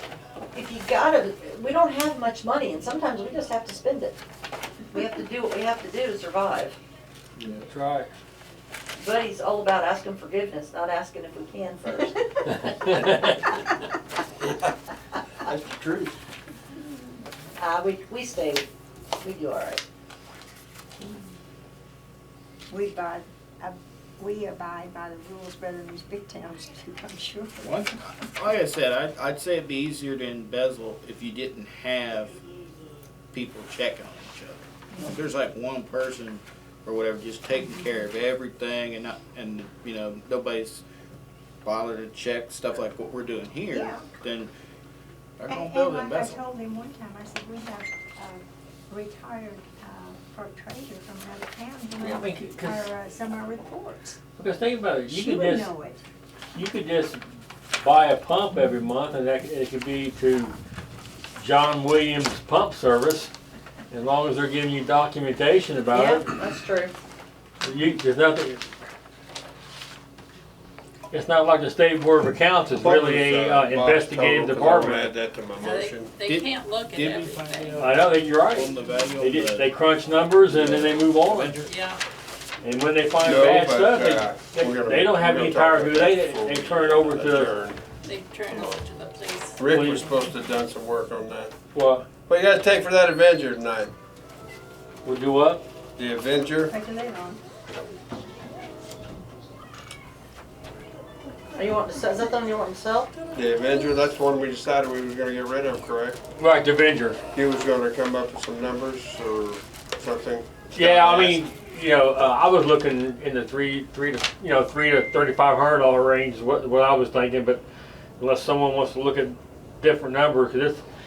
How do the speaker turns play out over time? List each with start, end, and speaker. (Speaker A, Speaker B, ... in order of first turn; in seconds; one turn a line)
Speaker A: 0.5-4.2
Speaker A: 4.9-6.8
Speaker B: 7.6-8.1
Speaker A: 9.0-12.7
Speaker B: 12.5-13.4
Speaker C: 15.4-16.1
Speaker A: 17.6-18.7
Speaker A: 19.2-19.8
Speaker D: 22.7-27.9
Speaker E: 27.6-32.4
Speaker E: 33.3-40.8
Speaker D: 34.9-35.2
Speaker E: 41.6-44.5
Speaker D: 43.7-44.1
Speaker E: 45.4-46.4
Speaker D: 45.5-54.2
Speaker B: 52.0-52.9
Speaker B: 54.4-55.7
Speaker D: 55.1-56.0
Speaker B: 56.5-57.2
Speaker B: 57.8-60.5
Speaker B: 61.4-63.3
Speaker B: 63.9-66.3
Speaker A: 65.9-66.9
Speaker B: 67.6-68.7
Speaker B: 71.1-75.1
Speaker C: 72.7-76.1
Speaker F: 75.6-77.9
Speaker E: 76.2-79.7
Speaker B: 77.8-81.6
Speaker E: 80.5-81.8
Speaker F: 81.7-82.0
Speaker B: 82.6-87.5
Speaker C: 83.2-87.8
Speaker F: 88.0-89.6
Speaker C: 88.5-88.8
Speaker C: 89.6-91.6
Speaker B: 89.7-90.1
Speaker B: 91.7-92.1
Speaker C: 92.3-93.9
Speaker B: 95.0-95.6
Speaker C: 96.0-96.7
Speaker D: 96.6-97.4
Speaker A: 101.5-103.2
Speaker C: 103.3-106.2
Speaker B: 106.4-107.2
Speaker C: 107.3-111.4
Speaker B: 110.7-117.6
Speaker B: 118.2-120.8